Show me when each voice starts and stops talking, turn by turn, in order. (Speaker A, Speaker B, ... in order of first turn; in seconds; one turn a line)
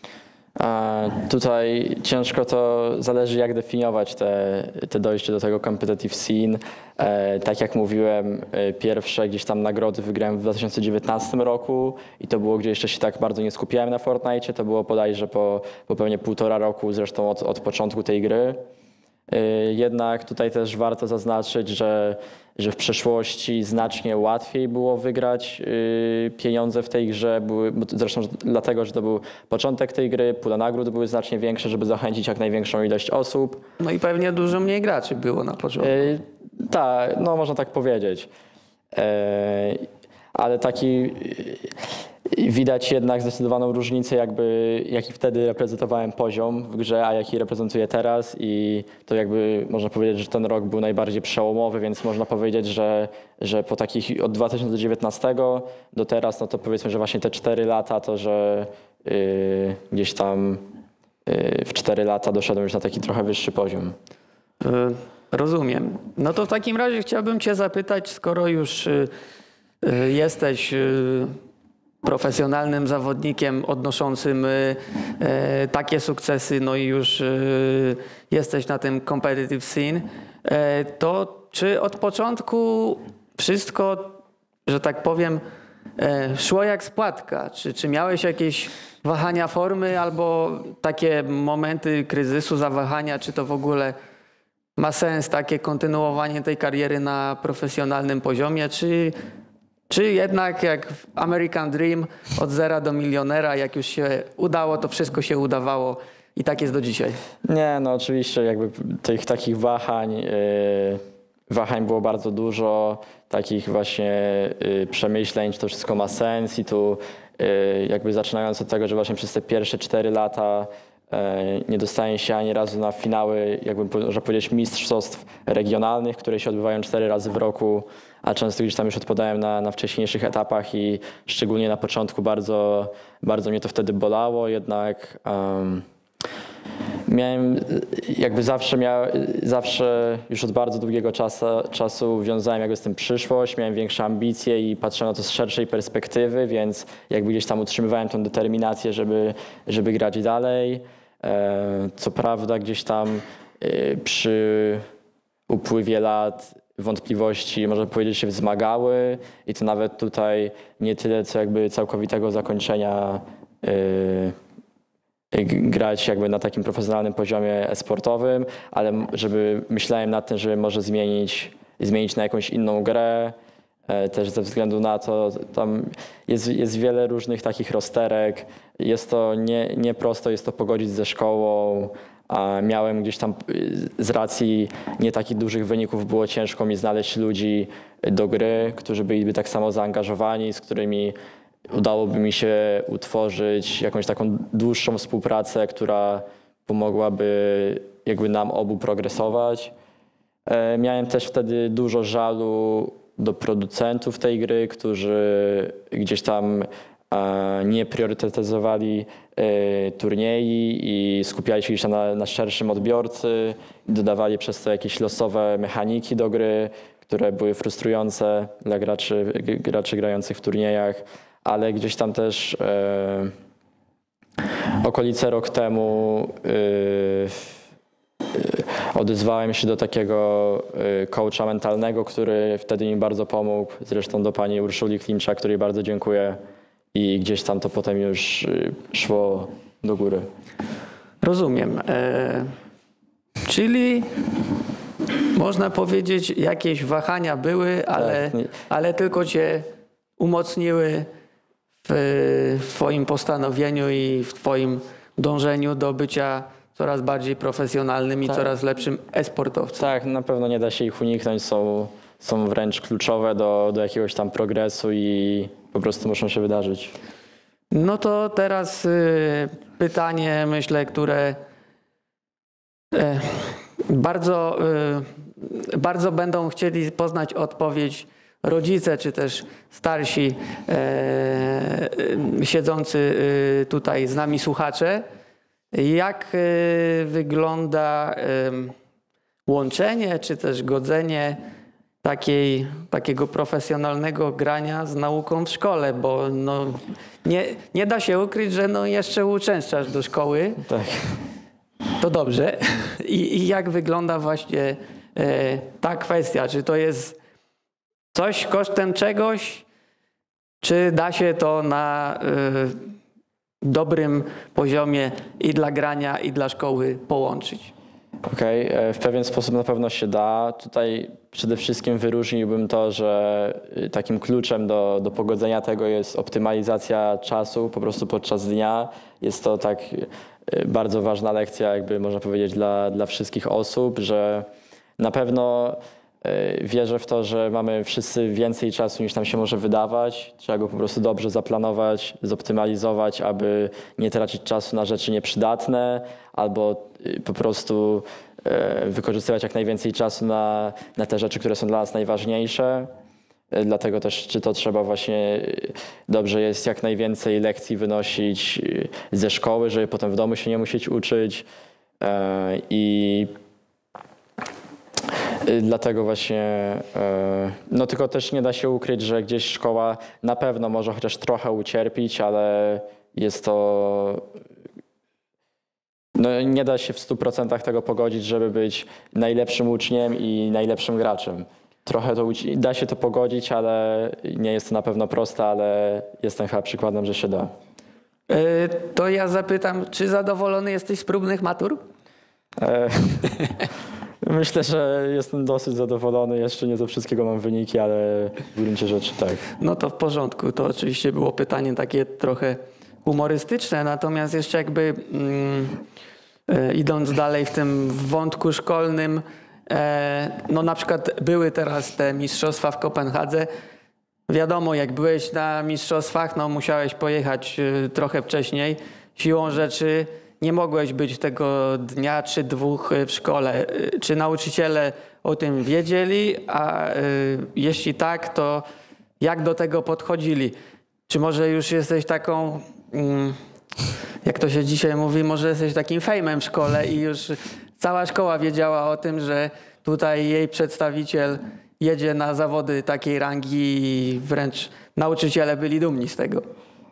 Speaker A: 0.6-18.6
Speaker A: 19.3-33.6
Speaker B: 33.8-36.0
Speaker A: 35.8-38.3
Speaker A: 38.9-41.7
Speaker A: 42.3-60.6
Speaker A: 61.3-64.0
Speaker B: 64.6-69.1
Speaker B: 69.8-71.3
Speaker B: 72.0-85.4
Speaker B: 86.0-94.0
Speaker B: 94.8-99.2
Speaker B: 99.9-107.2
Speaker A: 107.5-135.8
Speaker A: 137.1-154.8
Speaker A: 155.5-164.4
Speaker A: 165.3-173.4
Speaker A: 173.9-191.2
Speaker A: 191.7-199.7
Speaker A: 200.5-223.3
Speaker A: 224.8-227.5
Speaker A: 228.3-236.4
Speaker A: 236.9-240.3
Speaker B: 241.2-242.5
Speaker B: 243.4-244.1
Speaker B: 245.3-249.7
Speaker A: 247.9-248.5
Speaker B: 250.2-251.1
Speaker B: 251.8-259.8
Speaker A: 259.8-266.9
Speaker B: 267.7-271.4
Speaker B: 272.9-285.1
Speaker B: 285.7-288.8
Speaker B: 289.5-291.4
Speaker B: 292.0-300.6
Speaker A: 300.7-301.2
Speaker B: 302.0-307.2
Speaker B: 308.1-309.6
Speaker B: 310.6-312.8
Speaker B: 313.6-317.7
Speaker A: 318.3-352.9
Speaker A: 353.5-361.5
Speaker A: 362.0-363.3
Speaker A: 365.4-374.3
Speaker A: 376.1-387.5
Speaker B: 388.3-391.8
Speaker A: 392.6-393.4
Speaker A: 394.2-399.4
Speaker B: 399.6-405.8
Speaker B: 406.5-413.5
Speaker B: 414.3-428.6
Speaker B: 429.2-430.6
Speaker B: 431.1-433.4
Speaker B: 434.2-446.4